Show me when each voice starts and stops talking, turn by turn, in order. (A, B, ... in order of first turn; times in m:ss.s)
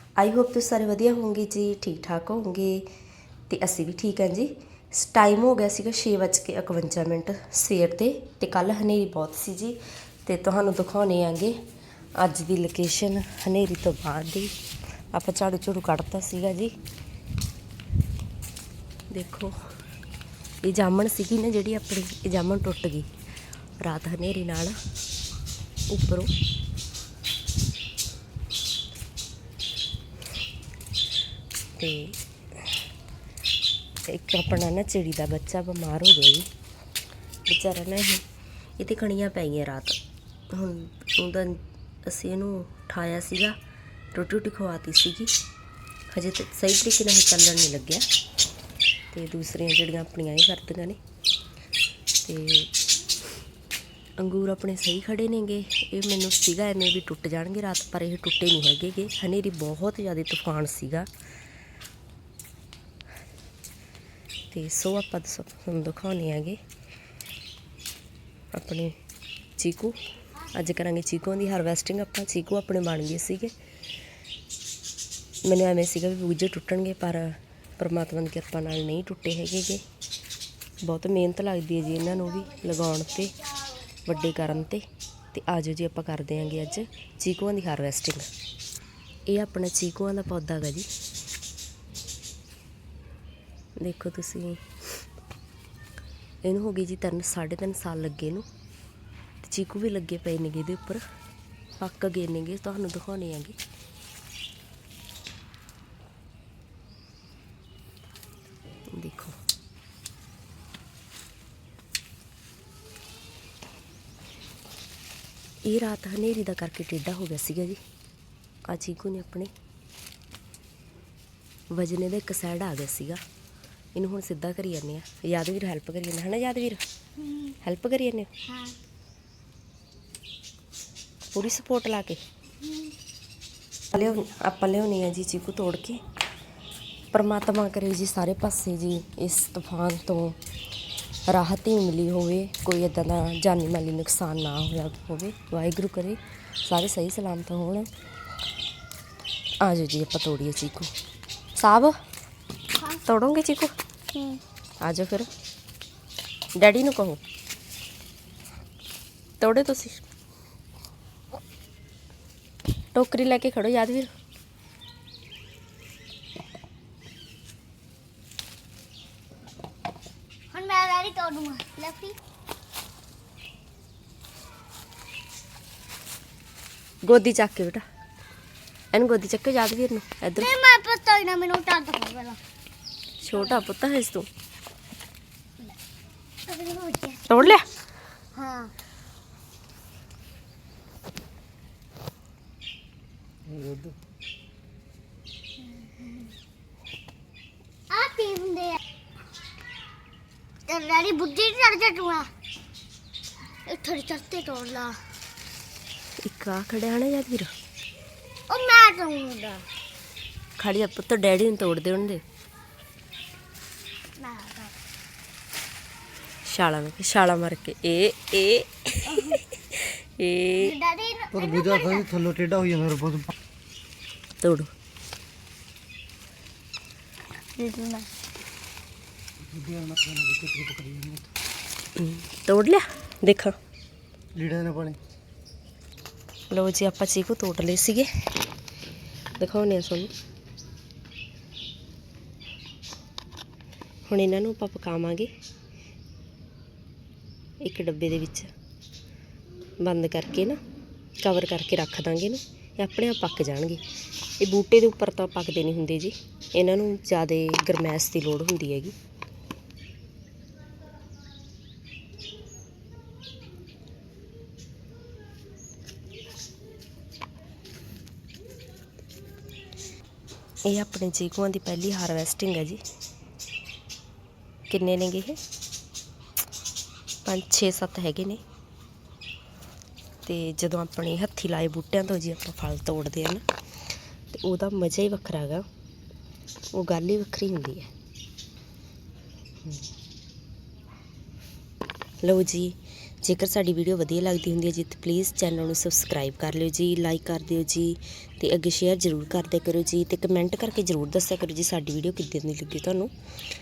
0:00.2-0:02.8 A
0:03.5-0:11.6 A
0:12.2-0:14.5 A
0:15.1-0:16.7 A
0:19.1-0:19.5 A
0:20.6-0:23.1 A
0:23.8-0:24.8 A
0:25.9-0:26.3 A
0:31.8-0:32.2 A
0:34.0-0:36.5 A
0:37.5-0:38.2 A
0:38.8-0:40.0 A
0:40.5-0:43.6 A
0:44.1-0:45.3 A
0:46.1-0:48.0 A
0:49.1-0:51.0 A
0:52.2-0:52.7 A
0:54.2-1:01.1 A
1:04.5-1:06.6 A
1:08.5-1:08.9 A
1:09.6-1:13.5 A
1:15.4-1:19.8 A
1:20.8-1:23.4 A
1:24.0-1:28.3 A
1:29.3-1:30.9 A
1:33.8-1:34.6 A
1:36.4-1:38.4 A
1:39.4-1:41.0 A
1:41.8-1:43.6 A
1:48.9-1:49.4 A
1:55.6-1:57.8 A
1:58.7-1:59.5 A
2:01.7-2:03.2 A
2:03.9-2:06.8 A
2:07.2-2:07.5 B
2:07.6-2:08.3 A
2:08.5-2:08.8 B
2:11.3-2:12.2 A
2:12.6-2:12.9 B
2:13.9-2:16.0 A
2:17.1-2:20.4 A
2:21.3-2:27.9 A
2:29.6-2:30.9 A
2:31.6-2:32.0 A
2:32.8-2:33.0 B
2:33.0-2:33.7 A
2:34.1-2:34.4 B
2:34.8-2:35.3 A
2:36.6-2:37.2 A
2:39.4-2:40.0 A
2:42.9-2:44.1 A
2:50.5-2:52.2 B
2:57.0-2:57.8 A
2:58.9-3:00.5 A
3:00.4-3:02.4 B
3:03.2-3:04.3 A
3:03.3-3:03.6 B
3:06.5-3:07.6 B
3:07.3-3:07.7 A
3:08.3-3:08.7 B
3:13.5-3:13.8 C
3:15.6-3:16.3 B
3:17.9-3:18.8 B
3:20.7-3:22.3 B
3:23.7-3:25.0 B
3:26.2-3:27.5 A
3:28.5-3:29.6 B
3:30.6-3:32.2 A
3:34.2-3:34.7 B
3:36.4-3:40.7 A
3:39.1-3:39.4 B
3:40.6-3:42.4 B
3:42.5-3:43.2 C
3:44.4-3:44.7 A
3:47.6-3:48.1 B
3:49.6-3:51.2 C
3:52.0-3:53.5 A
3:54.4-3:55.0 C
3:56.5-3:58.1 A
3:59.4-4:00.1 A
4:04.1-4:05.3 A
4:07.6-4:08.5 A
4:09.8-4:10.6 A
4:11.2-4:13.8 A
4:14.4-4:18.9 A
4:30.6-4:32.8 A
4:34.7-4:35.4 A
4:37.2-4:38.4 A
4:40.2-4:43.4 A
4:44.3-4:45.6 A
4:46.7-4:47.9 A
4:52.2-5:03.1 A